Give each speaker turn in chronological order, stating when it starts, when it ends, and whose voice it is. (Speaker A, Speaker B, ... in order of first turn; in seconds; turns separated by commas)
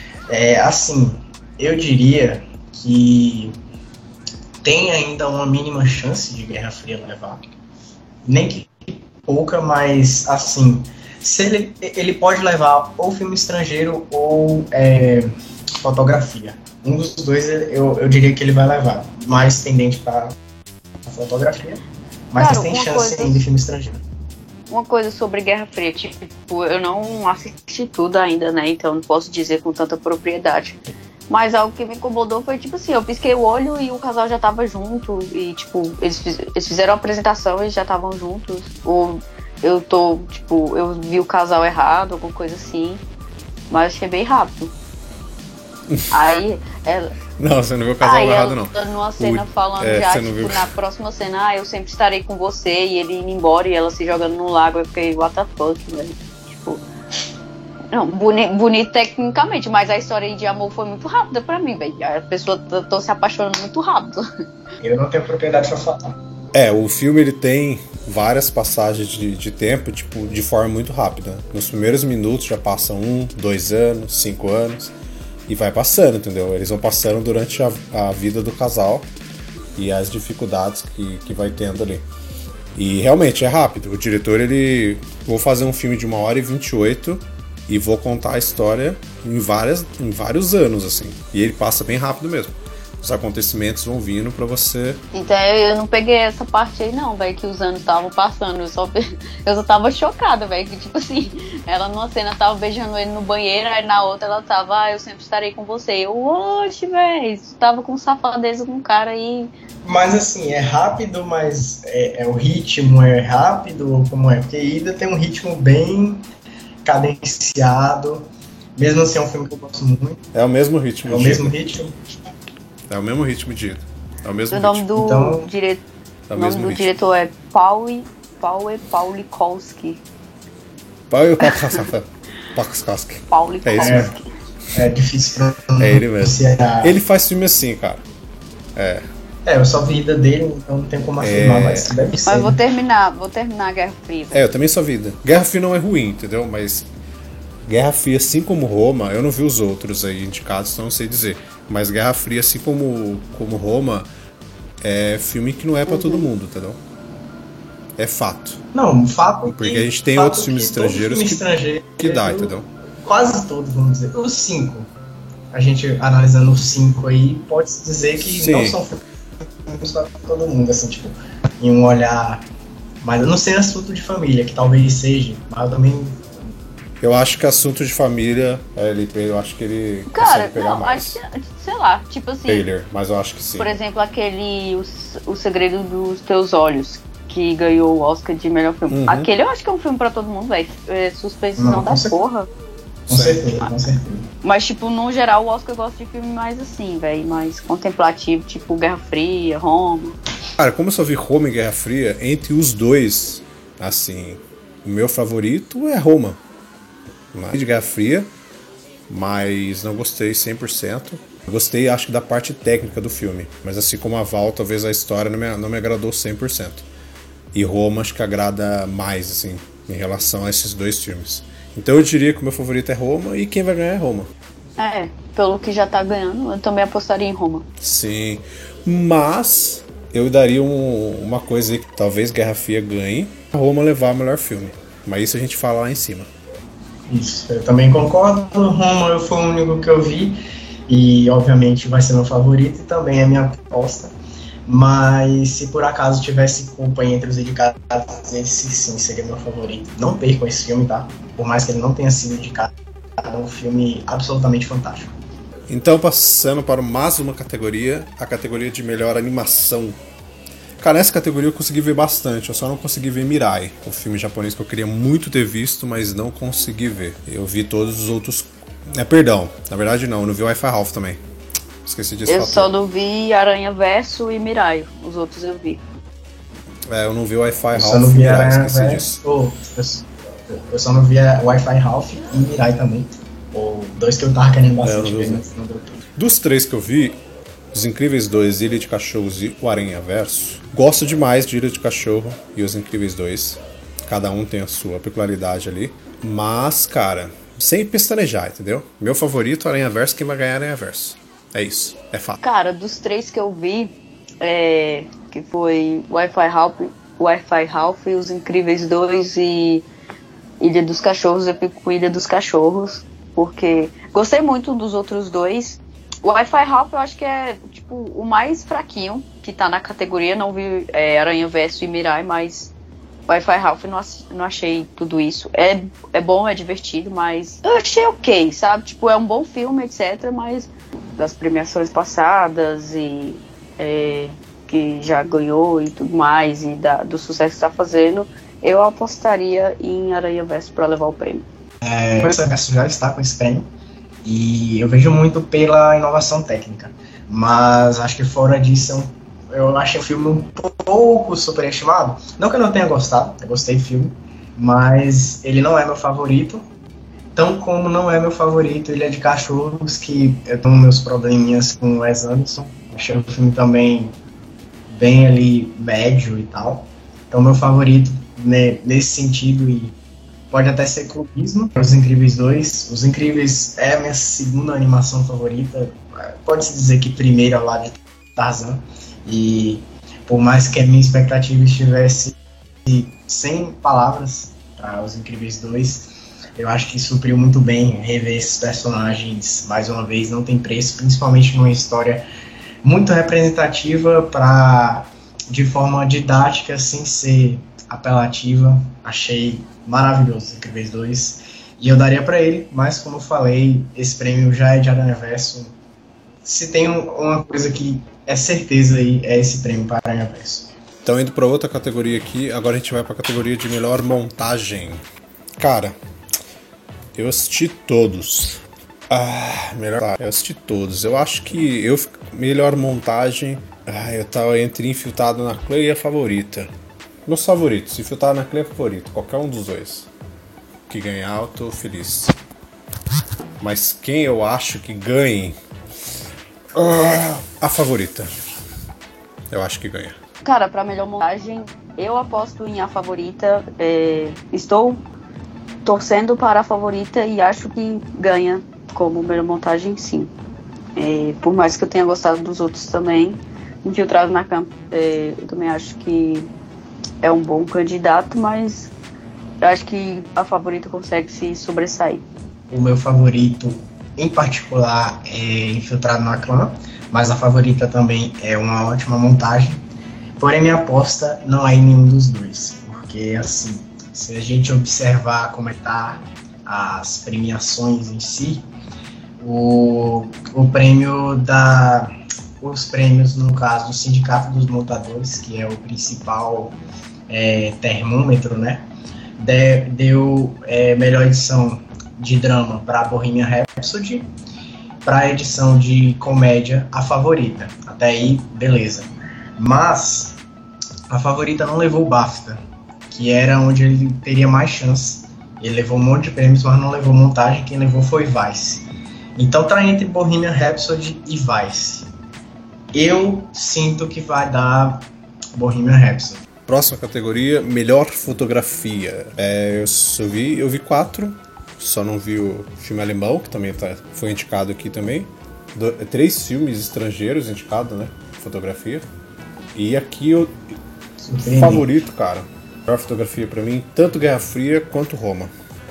Speaker A: 0.3-3.5, Speaker A: 4.6-7.4, Speaker A: 8.2-20.4, Speaker A: 21.1-24.0, Speaker B: 22.4-23.4, Speaker B: 24.7-43.0, Speaker B: 43.7-44.7, Speaker B: 46.1-47.1, Speaker C: 47.4-50.7, Speaker B: 48.0-56.9, Speaker B: 57.9-64.3, Speaker A: 64.8-66.2, Speaker C: 66.5-74.9, Speaker C: 75.5-79.1, Speaker C: 79.8-82.0, Speaker C: 82.8-95.0, Speaker B: 95.1-109.5, Speaker A: 109.8-116.3, Speaker A: 116.8-120.2, Speaker C: 120.3-121.7, Speaker A: 121.0-122.0, Speaker C: 122.9-124.9, Speaker B: 124.5-130.0, Speaker A: 125.0-125.5, Speaker C: 126.3-126.9, Speaker C: 131.1-134.1, Speaker B: 131.4-131.8, Speaker B: 133.3-134.3, Speaker A: 133.8-134.1, Speaker A: 134.7-137.0, Speaker C: 135.8-138.1, Speaker C: 138.8-139.1, Speaker A: 139.5-142.6, Speaker C: 141.2-141.9, Speaker B: 142.3-144.4, Speaker C: 144.3-146.9, Speaker C: 147.7-154.1, Speaker C: 154.8-156.8, Speaker C: 158.0-158.6, Speaker A: 158.7-164.9, Speaker C: 159.4-162.7, Speaker A: 165.5-169.0, Speaker C: 168.2-168.8, Speaker A: 169.7-172.4, Speaker A: 173.0-176.2, Speaker C: 177.0-181.2, Speaker B: 180.1-182.7, Speaker C: 182.5-183.8, Speaker B: 183.6-192.5, Speaker C: 188.9-189.3, Speaker A: 191.6-192.2, Speaker C: 193.1-193.5, Speaker A: 193.1-194.3, Speaker B: 194.4-200.2, Speaker C: 200.6-206.4, Speaker C: 207.3-208.3, Speaker C: 209.1-216.8, Speaker C: 217.5-224.3, Speaker B: 224.8-227.7, Speaker C: 227.8-236.3, Speaker A: 237.1-244.1, Speaker A: 244.7-255.1, Speaker C: 255.7-260.0, Speaker C: 260.8-271.2, Speaker C: 271.8-272.7, Speaker B: 272.3-275.8, Speaker C: 276.9-279.2, Speaker A: 277.7-286.0, Speaker C: 284.8-285.4, Speaker C: 286.2-287.2, Speaker C: 287.7-302.4, Speaker B: 302.4-309.9, Speaker B: 310.6-322.7, Speaker B: 323.3-341.4, Speaker A: 341.8-343.7, Speaker A: 344.2-356.6, Speaker A: 357.4-364.2, Speaker A: 364.9-370.0, Speaker A: 370.5-392.3, Speaker A: 392.8-405.7, Speaker A: 406.4-410.7, Speaker C: 411.0-415.0, Speaker C: 415.6-416.0, Speaker C: 417.1-426.7, Speaker C: 427.3-430.1, Speaker C: 430.9-432.4, Speaker C: 433.6-435.6, Speaker C: 436.7-438.3, Speaker C: 439.5-440.2, Speaker B: 440.4-445.0, Speaker B: 445.9-450.3, Speaker B: 451.0-456.5, Speaker B: 457.2-458.9, Speaker B: 459.6-462.2, Speaker A: 462.7-469.8, Speaker A: 470.4-478.7, Speaker A: 479.4-486.8, Speaker A: 487.3-494.3, Speaker A: 495.0-500.4, Speaker A: 501.1-508.9, Speaker A: 509.4-512.1, Speaker A: 512.9-516.4, Speaker C: 516.7-529.1, Speaker C: 529.8-530.7, Speaker A: 531.2-531.9, Speaker C: 531.5-535.5